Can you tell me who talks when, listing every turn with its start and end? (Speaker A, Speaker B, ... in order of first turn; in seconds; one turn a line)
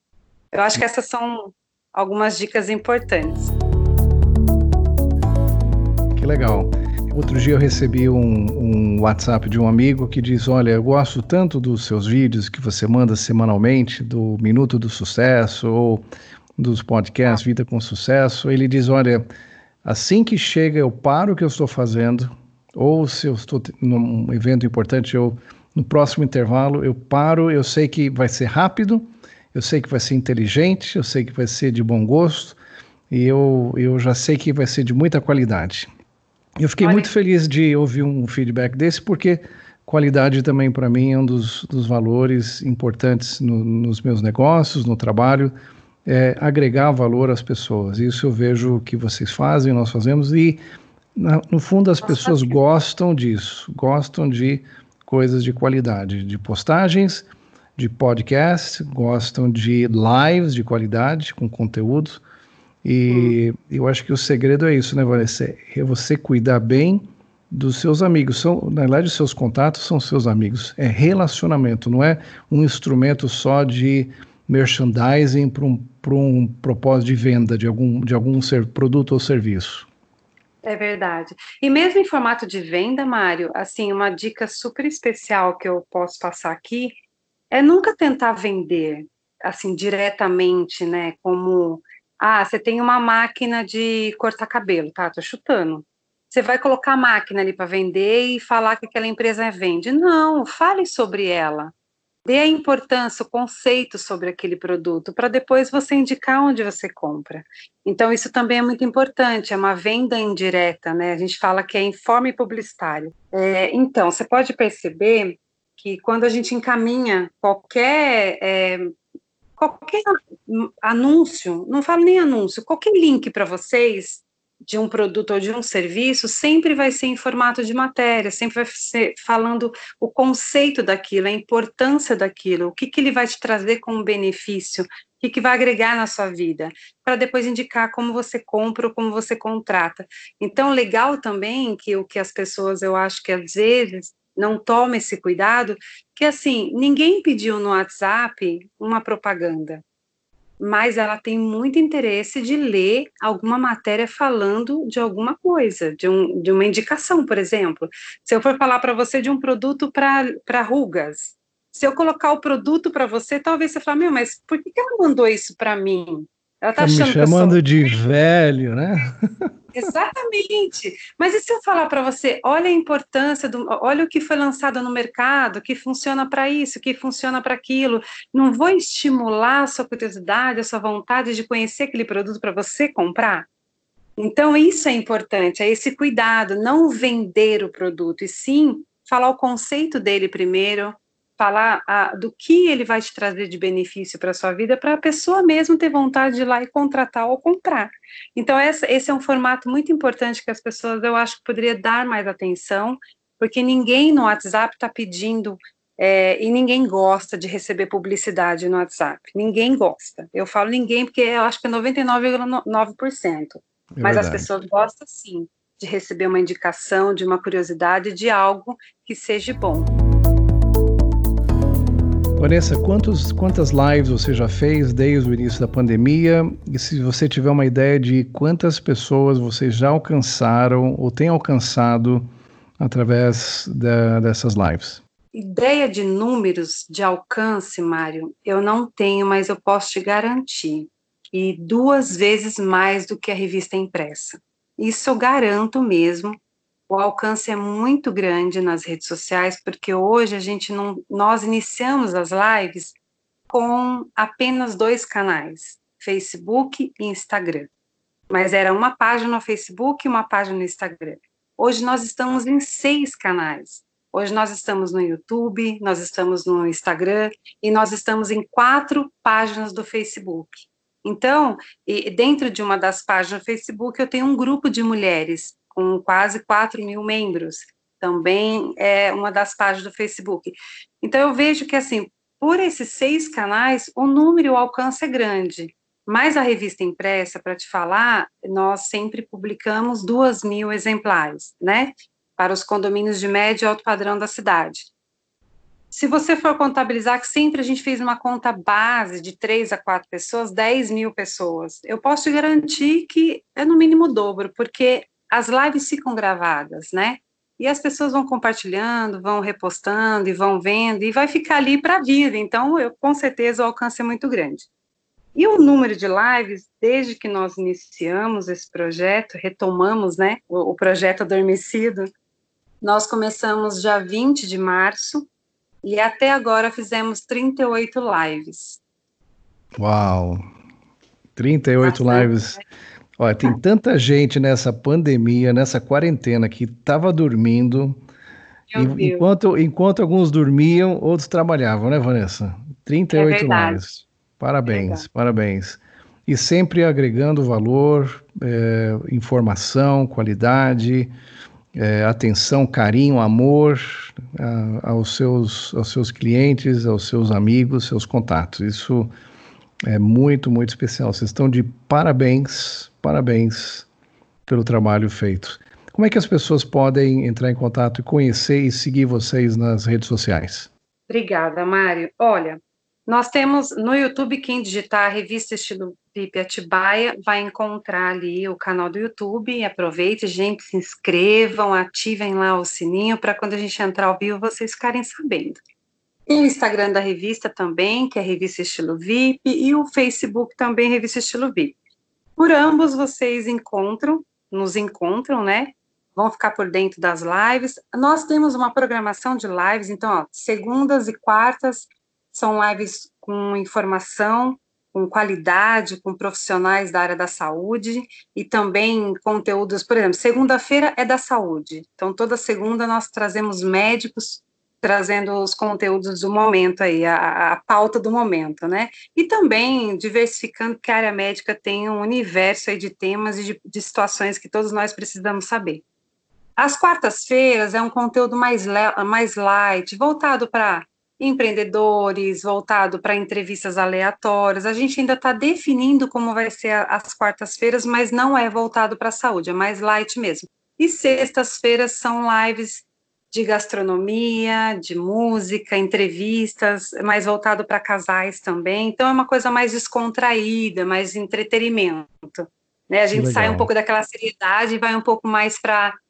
Speaker A: 0.5-3.5
Speaker B: 6.2-16.0
Speaker B: 16.6-19.2
Speaker B: 19.8-32.6
Speaker B: 33.1-35.9
Speaker B: 36.6-45.5
Speaker A: 36.8-37.1
Speaker B: 46.0-50.6
Speaker B: 51.1-57.2
Speaker A: 52.0-52.5
Speaker B: 57.8-62.2
Speaker B: 62.8-79.9
Speaker A: 63.1-63.4
Speaker A: 80.6-86.9
Speaker A: 87.5-101.7
Speaker A: 102.2-118.9
Speaker A: 119.6-149.8
Speaker A: 150.6-167.6
Speaker B: 166.8-169.5
Speaker A: 169.7-183.4
Speaker A: 184.2-219.9
Speaker B: 213.9-214.5
Speaker B: 222.4-232.3
Speaker B: 232.8-235.0
Speaker A: 235.3-246.4
Speaker A: 246.9-252.9
Speaker A: 253.5-257.7
Speaker A: 258.3-294.9
Speaker A: 295.9-314.7
Speaker A: 315.3-322.1
Speaker A: 322.8-325.3
Speaker A: 325.8-328.8
Speaker B: 329.8-330.4
Speaker B: 331.4-332.6
Speaker A: 331.8-332.6
Speaker B: 333.2-338.0
Speaker A: 338.7-339.2
Speaker B: 338.7-351.1
Speaker A: 343.1-343.8
Speaker A: 344.7-345.1
Speaker B: 351.7-359.1
Speaker B: 359.9-363.9
Speaker B: 364.5-370.7
Speaker A: 371.1-385.6
Speaker A: 386.3-391.8
Speaker A: 392.4-425.8
Speaker A: 426.6-456.0
Speaker B: 453.1-453.7